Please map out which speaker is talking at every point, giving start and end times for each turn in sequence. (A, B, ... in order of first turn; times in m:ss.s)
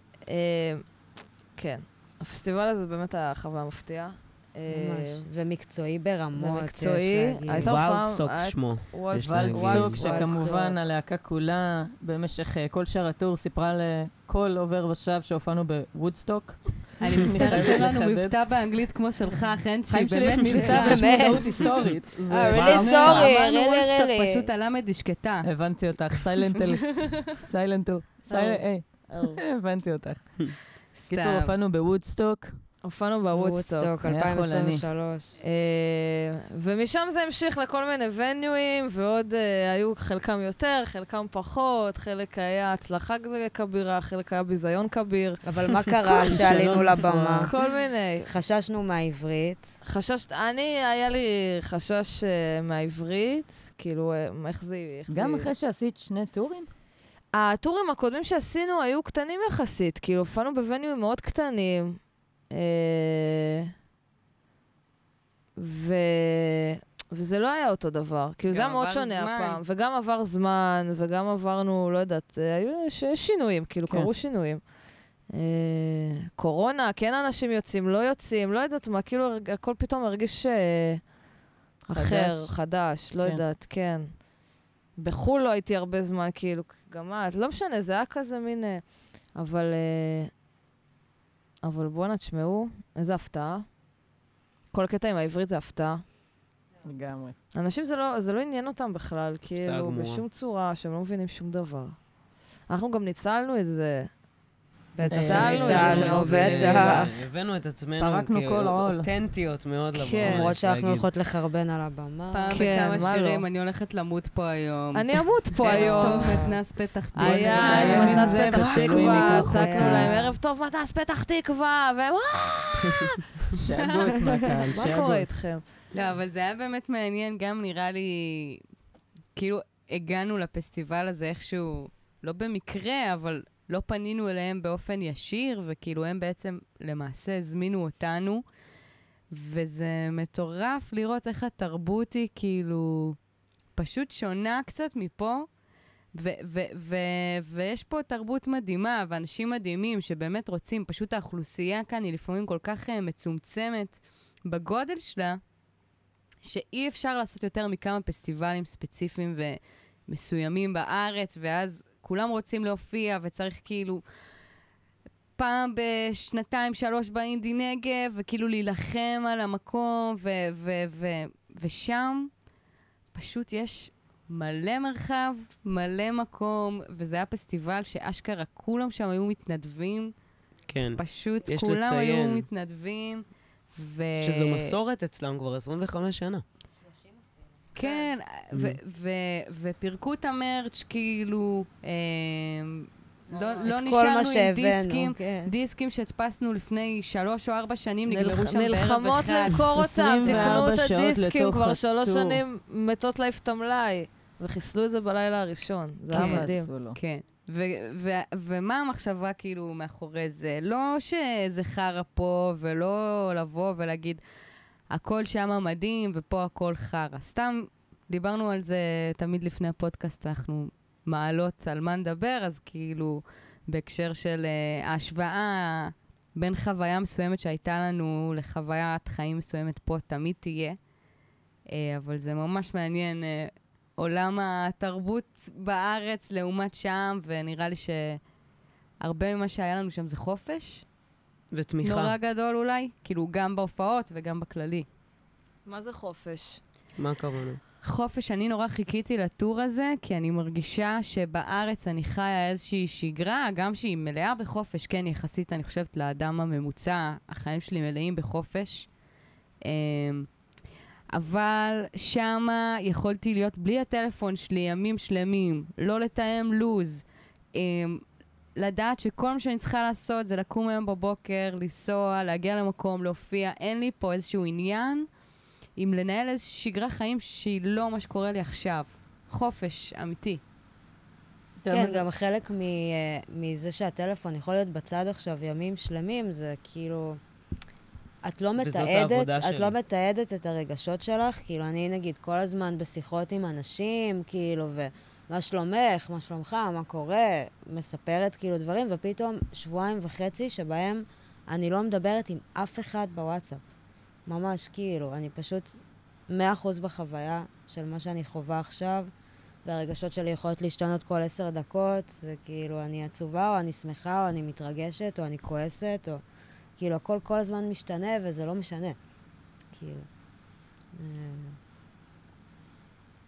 0:00.3-0:05.2 A
0:04.7-0:07.8 B
0:06.4-0:10.5 A
0:07.6-0:10.0 C
0:09.2-0:18.5 D
0:10.0-0:10.8 B
0:17.0-0:21.4 E
0:19.9-0:23.3 D
0:20.6-0:21.8 B
0:21.2-0:23.3 C
0:22.3-0:24.5 B
0:22.8-0:25.5 E
0:25.4-0:32.7 D
0:28.2-0:29.4 A
0:31.0-0:31.6 E
0:32.8-0:34.0 A
0:33.3-0:35.4 B
0:34.0-0:34.9 D
0:35.4-0:48.3 A
0:45.4-0:47.5 B
0:46.3-0:47.5 D
0:48.2-0:49.8 B
0:49.8-0:55.5 A
0:55.1-0:56.7 D
0:57.3-1:03.6 A
1:05.6-1:21.2 A
1:08.5-1:09.6 E
1:13.9-1:14.1 D
1:21.8-1:24.4 A
1:21.9-1:22.6 D
1:23.2-1:23.4 D
1:25.0-1:30.3 A
1:31.6-1:33.8 A
1:34.7-1:36.0 A
1:36.8-1:37.4 D
1:37.5-1:44.3 A
1:39.5-1:40.2 C
1:44.9-1:47.2 B
1:45.1-1:46.9 D
1:45.1-1:47.1 A
1:45.5-1:51.1 C
1:48.0-1:49.1 D
1:50.0-1:50.5 A
1:50.2-1:52.8 B
1:52.3-1:58.5 E
1:52.5-1:53.4 A
1:55.0-1:56.6 A
1:55.7-1:56.6 B
1:57.2-2:03.2 A
1:57.2-2:00.2 D
1:57.5-2:00.3 B
2:03.5-2:05.4 D
2:04.7-2:05.7 A
2:05.9-2:08.6 E
2:09.4-2:18.5 E
2:19.3-2:23.2 E
2:23.8-2:25.5 E
2:26.2-2:35.4 E
2:36.4-2:44.0 E
2:45.4-2:52.4 E
2:53.1-3:00.1 E
3:00.7-3:02.5 C
3:01.0-3:04.7 E
3:04.2-3:06.4 C
3:06.8-3:07.6 B
3:07.8-3:19.7 E
3:07.8-3:08.1 A
3:08.5-3:08.8 C
3:13.4-3:15.5 B
3:18.1-3:26.7 A
3:19.7-3:22.4 D
3:20.2-3:20.7 E
3:26.1-3:27.0 D
3:26.1-3:34.2 E
3:34.9-3:50.8 E
3:51.7-3:58.3 E
3:59.0-4:00.9 E
4:01.5-4:02.2 C
4:01.8-4:04.9 E
4:05.6-4:06.6 A
4:07.0-4:07.6 C
4:07.8-4:19.0 E
4:19.6-4:20.4 E
4:21.1-4:35.1 E
4:35.8-4:40.4 E
4:41.6-4:42.0 D
4:41.7-4:47.2 B
4:48.2-5:03.6 B
4:48.6-4:49.7 C
5:04.3-5:05.8 B
5:06.3-5:09.1 B
5:09.6-5:16.2 B
5:16.8-5:19.0 B
5:19.7-5:20.1 B
5:20.9-5:21.6 B